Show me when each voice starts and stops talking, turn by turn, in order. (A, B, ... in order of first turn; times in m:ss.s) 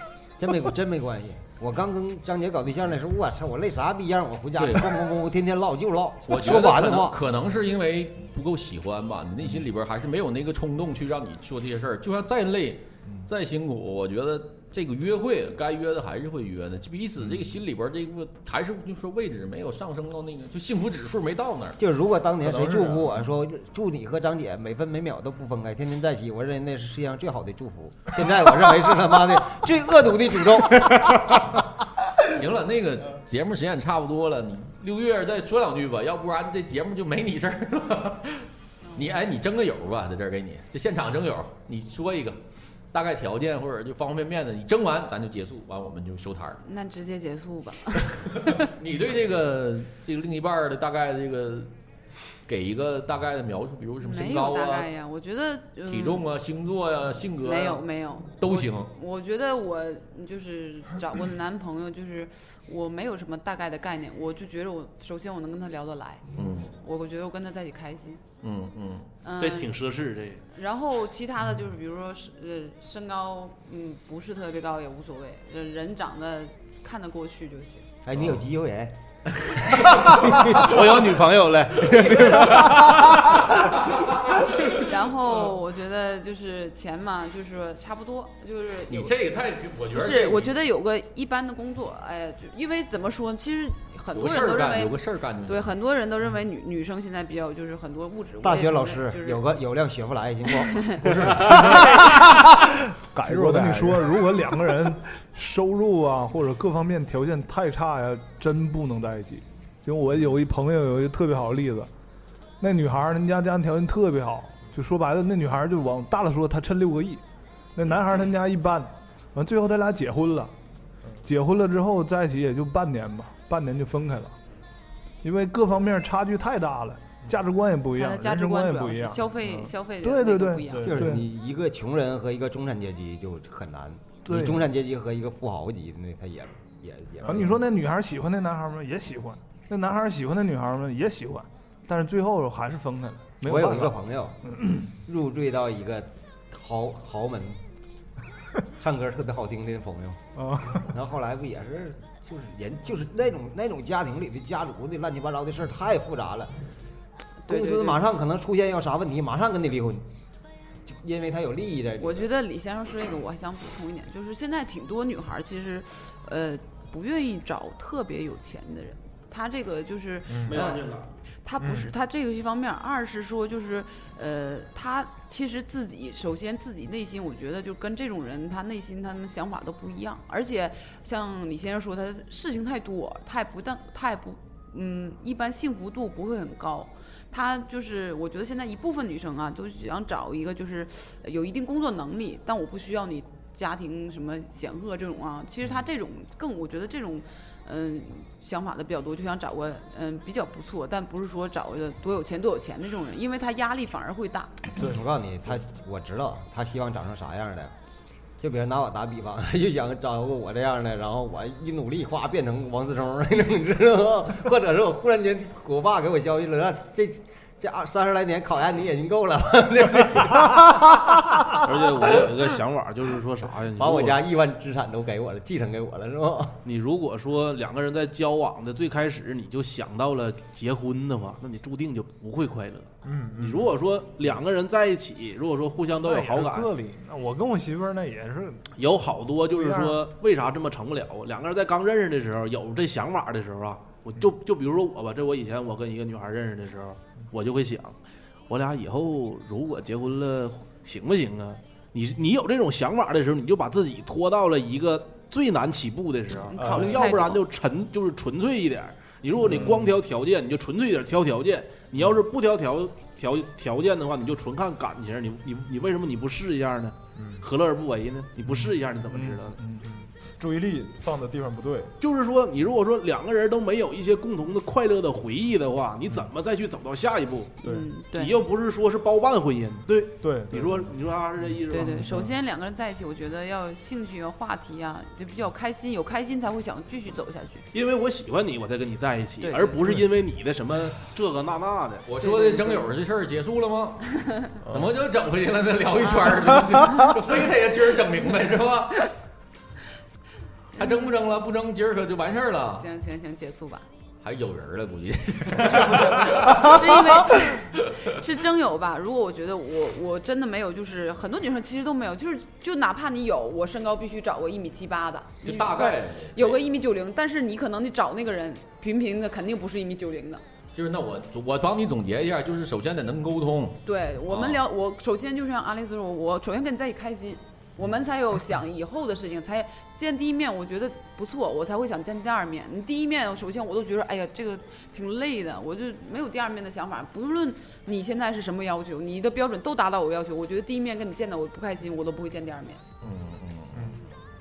0:00.4-0:07.2 A
0:04.6-0:05.0 B
0:06.3-0:21.8 B
0:17.2-0:17.5 C
0:21.8-0:31.5 A
0:22.5-0:23.1 C
0:32.2-0:42.4 B
0:42.9-0:46.6 B
0:46.6-0:48.7 D
0:48.1-0:51.7 B
0:52.5-0:54.9 B
0:54.0-0:56.2 D
0:55.9-0:57.8 B
0:57.4-1:06.2 D
0:58.4-0:58.9 B
1:06.3-1:06.7 B
1:06.8-1:08.2 D
1:08.4-1:09.1 B
1:09.2-1:09.8 D
1:09.4-1:10.4 E
1:10.5-1:17.9 D
1:18.0-1:20.8 A
1:19.9-1:23.6 E
1:22.1-1:23.0 A
1:23.5-1:24.7 B
1:24.6-1:29.2 D
1:28.9-1:30.5 B
1:29.9-1:39.4 D
1:34.1-1:35.7 B
1:38.4-1:41.6 A
1:41.0-1:41.7 C
1:41.2-1:51.9 F
1:43.2-1:44.2 C
1:52.6-1:57.2 F
1:57.7-2:00.5 F
2:01.2-2:04.3 F
2:05.2-2:11.2 F
2:07.9-2:11.0 D
2:10.7-2:11.1 C
2:10.8-2:17.6 A
2:14.2-2:14.6 F
2:17.2-2:23.9 F
2:23.4-2:24.4 A
2:24.5-2:24.9 F
2:24.9-2:27.6 A
2:28.7-2:30.2 A
2:30.4-2:30.9 F
2:30.7-2:36.5 A
2:37.4-2:38.1 D
2:37.5-2:40.0 A
2:40.8-2:42.3 A
2:42.0-2:50.9 D
2:50.3-2:50.7 C
2:50.5-2:51.1 E
2:51.4-3:24.7 D
2:51.6-2:51.9 C
3:24.8-3:27.7 A
3:28.4-3:42.3 A
3:41.6-3:44.2 E
3:43.8-3:46.6 A
3:46.6-3:56.7 E
3:53.0-3:53.7 C
3:56.0-3:58.6 F
3:58.7-4:08.0 E
3:59.5-4:00.0 F
4:08.5-4:29.6 E
4:16.5-4:17.4 D
4:16.6-4:17.0 C
4:19.4-4:19.9 C
4:27.2-4:27.4 C
4:29.1-4:29.8 F
4:29.8-4:31.9 C
4:32.0-4:37.6 E
4:37.6-4:38.4 D
4:37.6-4:37.9 C
4:38.1-4:42.0 E
4:40.2-4:42.3 C
4:41.7-4:47.7 D
4:47.7-4:52.0 E
4:49.4-4:49.8 D
4:52.0-4:59.1 B
4:52.2-4:53.0 D
4:56.0-4:56.6 D
5:00.8-5:01.0 D
5:00.8-5:02.9 B
5:02.7-5:03.9 D
5:04.2-5:07.9 B
5:05.6-5:20.4 D
5:15.4-5:16.7 B
5:20.7-5:24.6 B
5:23.8-5:42.8 D
5:43.0-5:44.0 B